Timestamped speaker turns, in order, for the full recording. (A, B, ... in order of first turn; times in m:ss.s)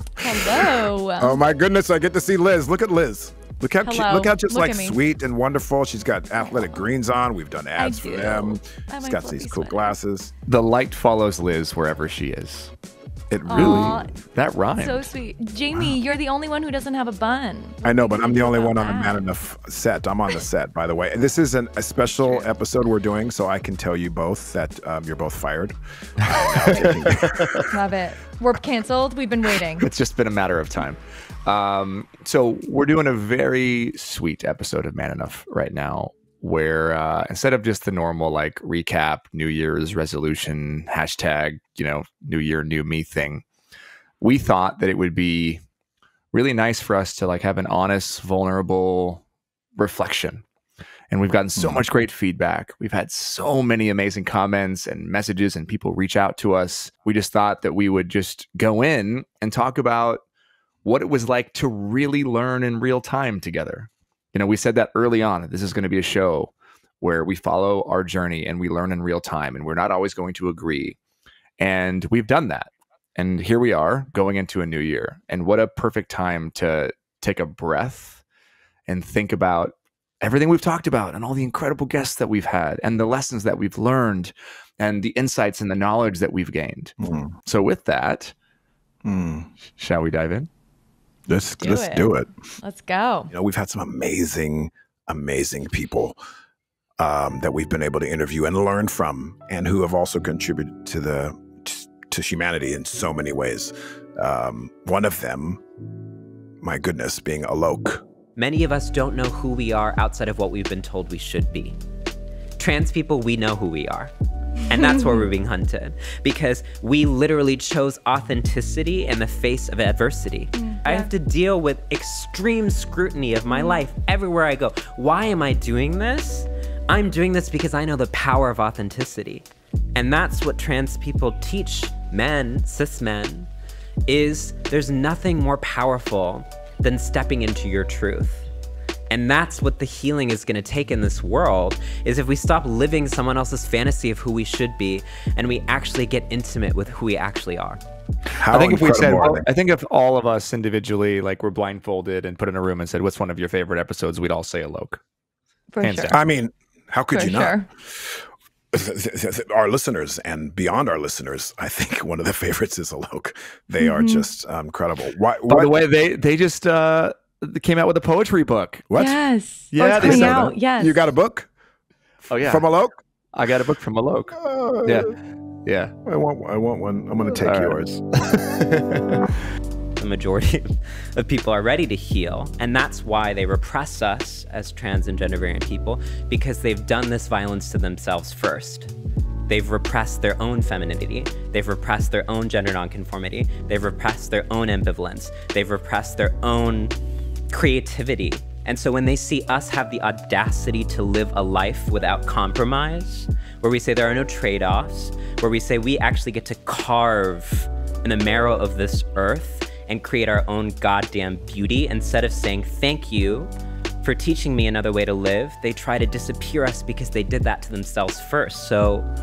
0:00.2-0:01.4 A
0:00.6-0:10.3 B
0:03.8-0:05.0 A
0:07.8-0:09.9 A
0:10.4-0:12.7 C
0:13.3-0:14.0 B
0:13.5-0:14.1 A
0:13.5-0:15.1 C
0:14.8-0:19.2 A
0:17.8-0:27.5 B
0:26.3-0:26.8 C
0:27.7-0:29.8 A
0:29.8-0:43.4 C
0:44.2-0:45.6 C
0:46.3-0:49.2 C
0:49.8-0:50.4 C
0:51.1-1:00.2 C
0:51.6-0:51.8 B
1:00.8-1:11.0 C
1:11.6-1:18.2 C
1:18.9-1:26.9 C
1:27.0-1:27.3 B
1:27.4-1:28.3 C
1:29.0-1:29.5 B
1:29.8-1:30.5 C
1:31.3-1:32.3 B
1:31.6-1:32.1 A
1:32.6-1:33.3 A
1:33.3-1:36.2 B
1:37.0-1:45.6 B
1:46.6-1:48.0 B
1:48.4-1:51.8 D
1:52.6-1:54.1 D
1:54.7-2:13.5 D
1:54.7-1:55.3 A
2:00.5-2:01.1 A
2:14.1-2:18.5 D
2:19.1-2:27.8 D
2:28.4-2:29.4 B
2:28.5-2:35.0 C
2:35.7-2:36.2 A
2:35.8-2:36.2 C
2:36.1-2:45.8 B
2:37.1-2:37.7 A
2:43.8-2:44.3 A
2:45.5-2:48.8 C
2:48.9-2:49.2 B
2:49.0-2:51.0 A
2:49.7-2:50.4 C
2:49.9-2:51.5 B
2:52.3-2:52.7 C
2:52.4-2:53.0 B
2:53.3-2:55.9 C
2:54.4-2:55.1 B
2:56.0-2:57.9 B
2:57.4-2:58.8 C
3:00.0-3:08.9 D
3:09.5-3:16.9 D
3:17.5-3:33.5 D
3:34.0-3:39.1 D